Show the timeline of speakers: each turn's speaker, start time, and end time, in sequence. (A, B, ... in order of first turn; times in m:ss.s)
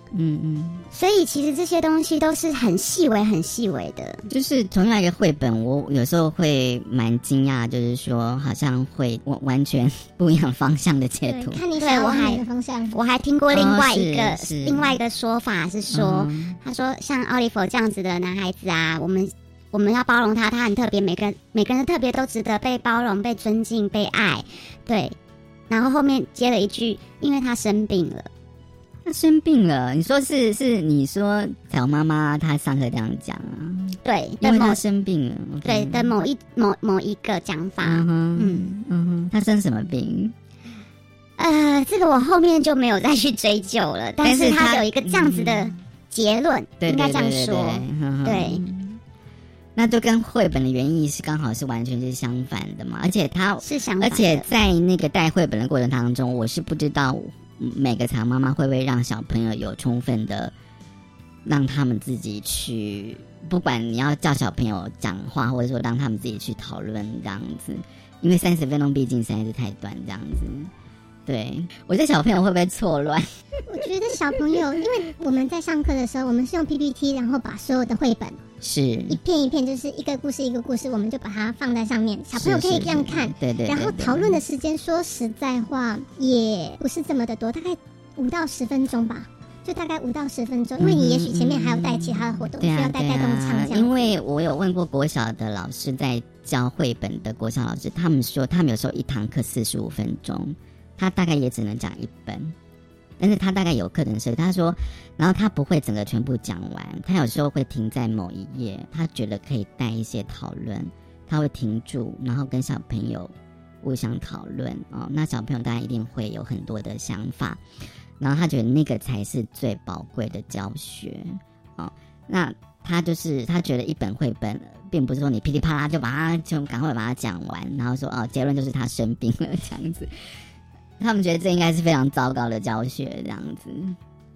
0:00.1-0:00.9 A
0:00.9-0:04.2 B
0:04.3-0:11.6 A
0:11.3-0:13.0 C
0:11.8-0:25.2 B
0:13.5-0:15.0 A
0:15.9-0:16.6 A
0:25.7-0:28.3 B
0:29.0-0:36.2 A
0:34.0-0:34.8 B
0:35.6-0:38.6 B
0:37.8-0:40.4 A
0:41.4-0:48.6 B
0:44.2-0:45.8 A
0:46.8-0:49.0 A
0:49.8-1:00.5 A
0:53.6-0:54.4 B
1:01.4-1:10.7 A
1:11.3-1:13.3 A
1:13.7-1:18.4 C
1:18.6-1:19.2 A
1:19.1-1:34.1 C
1:22.3-1:24.4 A
1:30.8-1:42.6 A
1:43.2-1:57.6 A
1:58.2-2:10.1 A
2:11.0-2:14.0 A